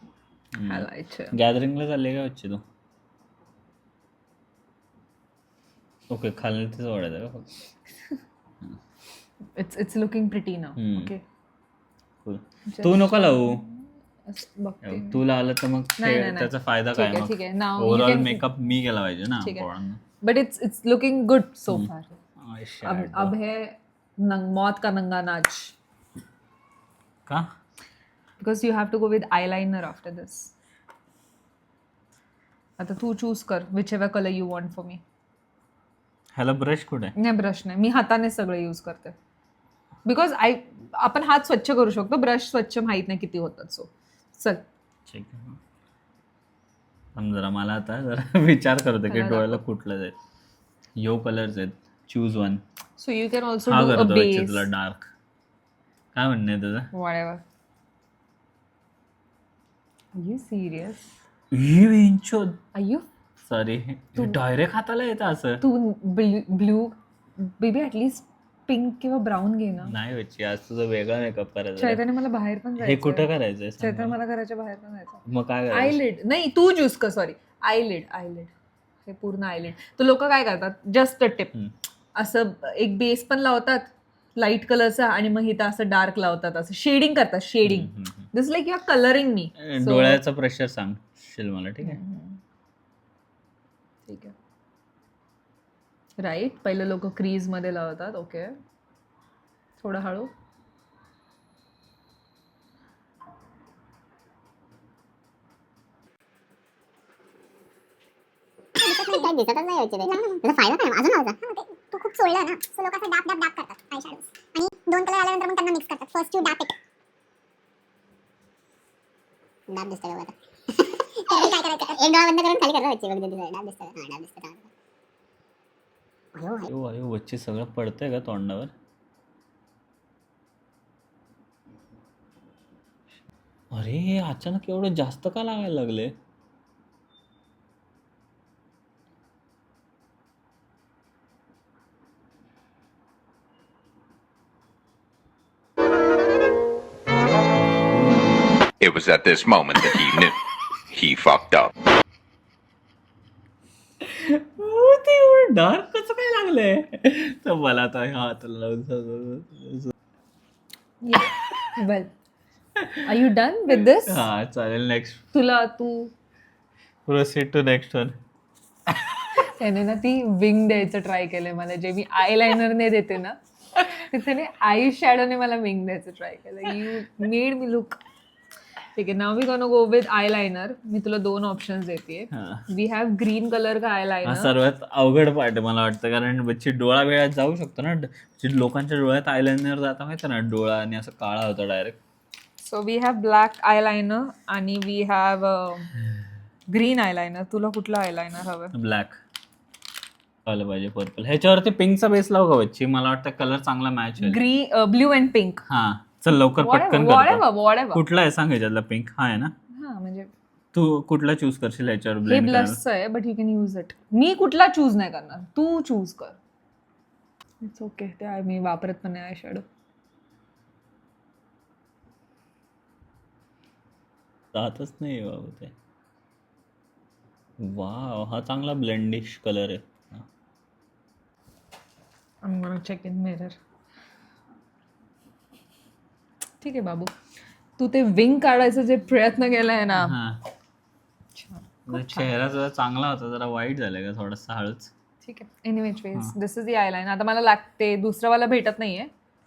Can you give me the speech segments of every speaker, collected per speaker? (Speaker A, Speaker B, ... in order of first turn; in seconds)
Speaker A: 0.6-2.6, 6.1-7.5, 10.8-11.1, 12.2-13.6, 14.8-20.0, 22.4-23.4, 36.4-37.1, 45.1-45.6, 47.2-50.1, 51.0-52.6, 53.7-55.1, 56.1-56.9, 61.5-62.6, 63.5-65.6, 69.8-72.0, 72.8-74.2, 75.3-76.0, 87.7-88.2, 89.6-92.0, 126.7-128.7, 133.7-136.1, 154.0-159.9, 162.8-163.0, 164.1-165.2, 167.1-168.2, 182.3-182.7, 184.2-192.0, 198.7-199.2, 200.4-204.4, 205.7-209.5, 210.7-212.8, 224.5-225.7, 227.6-230.3, 240.0-240.4, 241.9-244.9
Speaker B: 0.7-1.4, 9.6-11.2, 12.7-15.2, 16.0-18.5, 19.4-19.7, 20.2-22.2, 22.8-25.7, 28.4-30.5, 32.8-35.0, 37.2-39.1, 40.1-44.6, 49.1-49.6, 53.0-54.7, 56.9-57.4, 60.1-61.1, 62.8-63.0, 65.6-69.9, 71.8-78.5, 79.1-81.5, 82.2-90.2, 91.8-92.4, 94.1-94.3, 96.2-98.5, 99.8-100.3, 161.0-162.1, 163.0-164.3, 165.3-166.1, 169.4-178.0, 178.9-184.5, 192.6-195.9, 196.7-198.7, 204.2-205.6, 206.5-208.0, 209.8-210.3, 212.3-216.4, 217.6-219.7, 232.4-233.6, 236.6-237.1, 237.8-240.2, 241.3-242.3, 245.2-249.1
Speaker C: 108.8-111.4, 119.7-120.3, 121.2-124.7, 126.3-126.7
Speaker D: 108.8-109.3, 110.1-110.4, 111.4-116.7, 121.3-122.0
Speaker E: 148.8-150.4, 150.9-151.7